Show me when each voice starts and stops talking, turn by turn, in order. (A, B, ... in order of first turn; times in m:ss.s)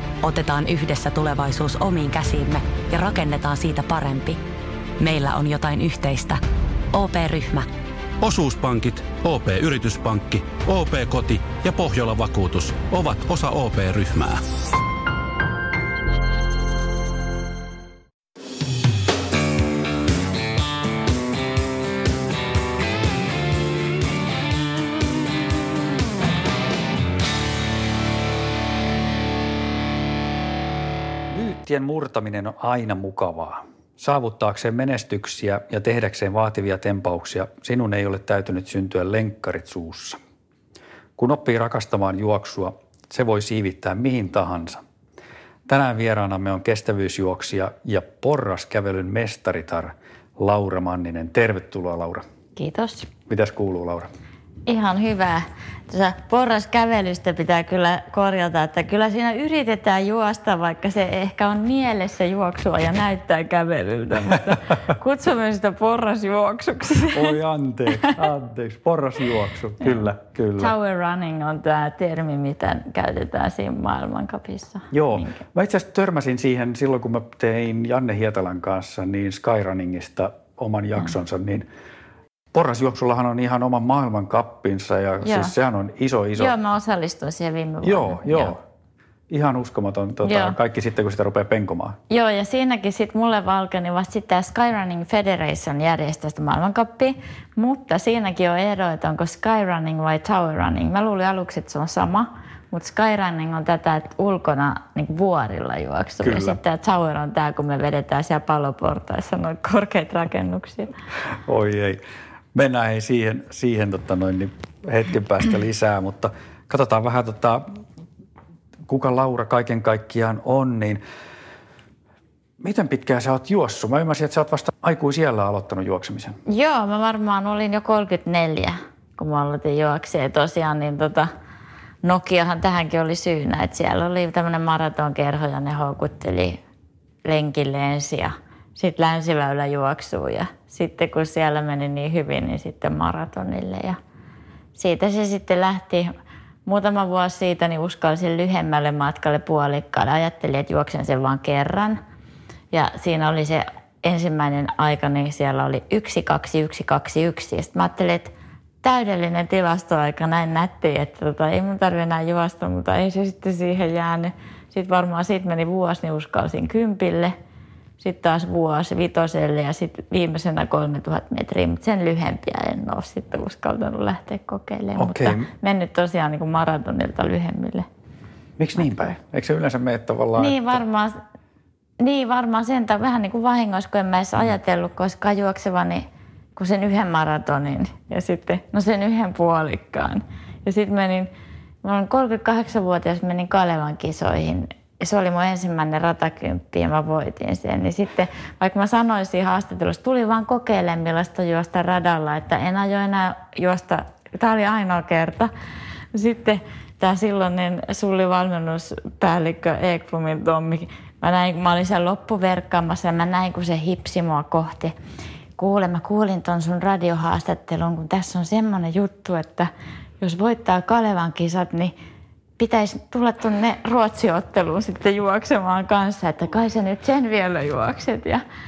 0:00.2-0:04.4 A
0:05.0-0:06.4 A
0:06.9-0:07.7 A
0:08.2-0:14.4 B
0:31.3-0:40.2 C
0:41.2-0:44.8 C
0:45.7-0:52.2 C
0:52.6-0:53.1 D
0:53.3-0:54.1 C
0:54.6-1:07.4 D
1:07.1-1:10.7 C
1:10.6-1:15.4 D
1:14.9-1:21.6 C
1:22.5-1:26.5 C
1:25.2-1:25.5 D
1:26.4-1:28.6 D
1:27.8-1:28.6 C
1:29.3-1:32.0 C
1:30.2-1:30.5 D
1:32.1-1:50.9 D
1:46.2-1:46.6 C
1:51.4-1:52.0 C
1:52.5-1:57.8 C
1:58.9-2:01.0 C
2:02.6-2:06.4 C
2:06.5-2:11.3 D
2:12.0-2:16.6 D
2:17.2-2:24.0 D
2:24.7-2:26.1 D
2:26.6-2:32.0 D
2:32.7-2:47.3 D
2:48.0-2:57.9 D
2:55.0-2:55.5 C
2:58.6-3:00.8 C
3:00.4-3:01.2 D
3:02.0-3:11.3 D
3:11.8-3:25.5 D
3:26.1-3:34.9 D
3:35.6-3:41.9 D
3:42.6-3:48.4 D